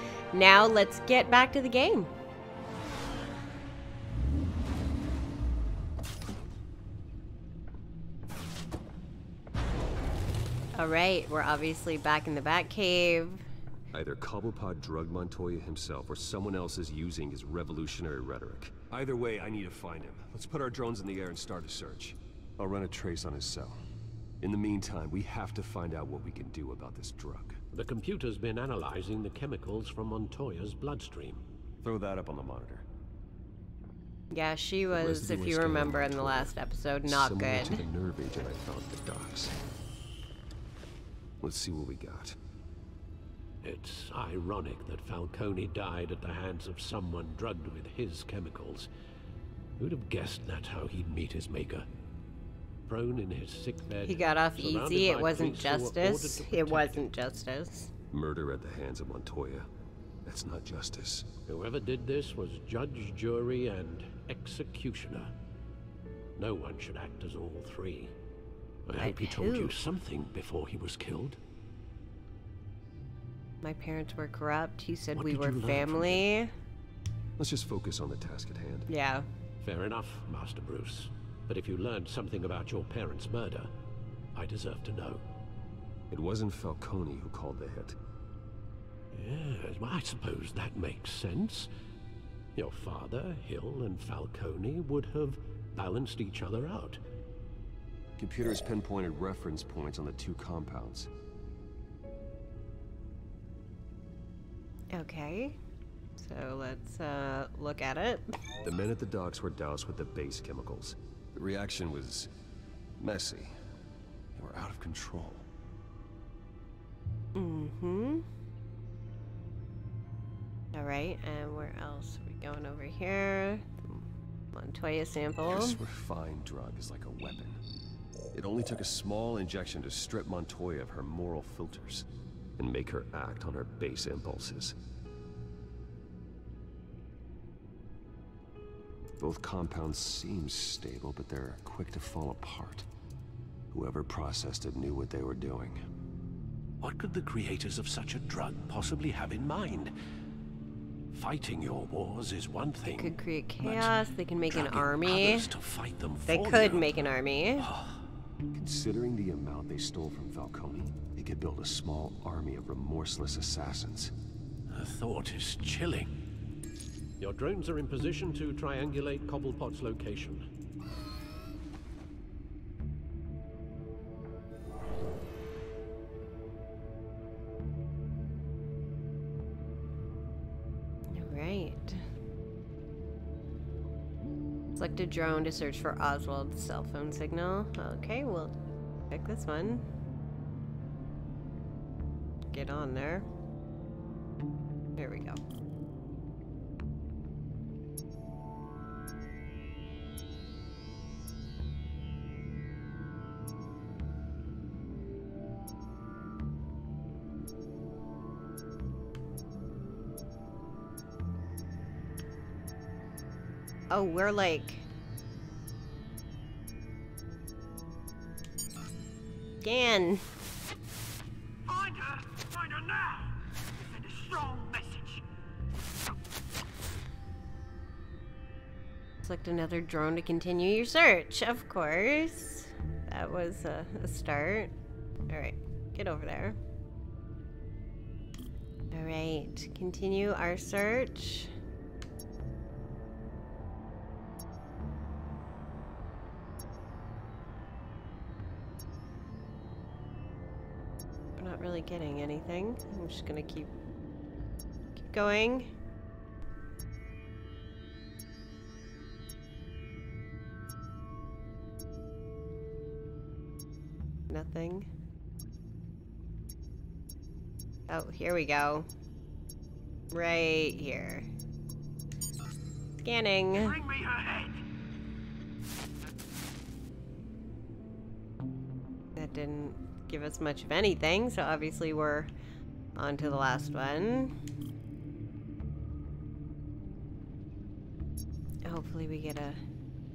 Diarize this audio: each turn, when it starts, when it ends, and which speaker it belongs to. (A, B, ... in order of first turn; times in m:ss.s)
0:00.3-0:02.1 A
0:10.7-0:13.4 A
0:13.9-0:23.8 B
0:24.4-0:27.6 B
0:27.7-0:31.4 C
0:31.8-0:32.8 B
0:34.3-0:37.8 A
0:34.9-0:39.5 B
0:41.4-0:42.4 B
0:43.6-0:48.9 C
0:49.8-0:51.9 C
0:52.9-0:57.0 C
0:54.0-0:57.9 A
0:58.1-0:59.7 B
1:00.2-1:01.4 B
1:01.4-1:05.3 C
1:06.4-1:08.1 C
1:08.9-1:11.4 C
1:09.0-1:09.7 A
1:13.6-1:16.5 A
1:15.2-1:16.3 C
1:17.4-1:18.9 B
1:18.9-1:19.3 A
1:19.6-1:23.7 C
1:24.3-1:25.2 C
1:26.1-1:28.0 B
1:29.1-1:31.7 C
1:32.6-1:37.0 C
1:38.2-1:41.1 B
1:44.9-1:45.6 A
1:46.2-1:48.3 A
1:48.6-1:52.3 B
1:53.0-1:53.5 B
1:54.3-1:55.5 B
1:57.3-1:58.2 A
2:00.7-2:05.8 A
2:05.4-2:07.6 B
2:08.3-2:14.8 B
2:19.2-2:22.9 B
2:23.7-2:25.8 B
2:26.8-2:29.9 C
2:31.1-2:38.0 C
2:32.9-2:35.5 A
2:36.3-2:37.7 A
2:38.5-2:44.1 B
2:44.7-2:46.1 C
2:47.2-2:50.4 C
3:01.1-3:02.0 A
3:04.8-3:08.5 A
3:09.1-3:09.8 A
3:12.5-3:13.2 A
3:15.0-3:15.4 A
3:33.9-3:34.8 A
3:39.6-3:40.2 A
3:41.6-3:43.3 D
3:43.8-3:45.2 D
3:49.2-3:54.7 A
3:55.3-3:56.6 A
3:58.9-4:01.5 A
4:11.4-4:13.7 A
4:15.0-4:15.7 A
4:24.3-4:24.9 A
4:27.9-4:28.9 A
4:30.1-4:31.3 A
4:33.0-4:33.8 A
4:33.5-4:34.6 D
4:39.2-4:42.3 A
4:43.0-4:44.3 A
4:48.6-4:49.6 A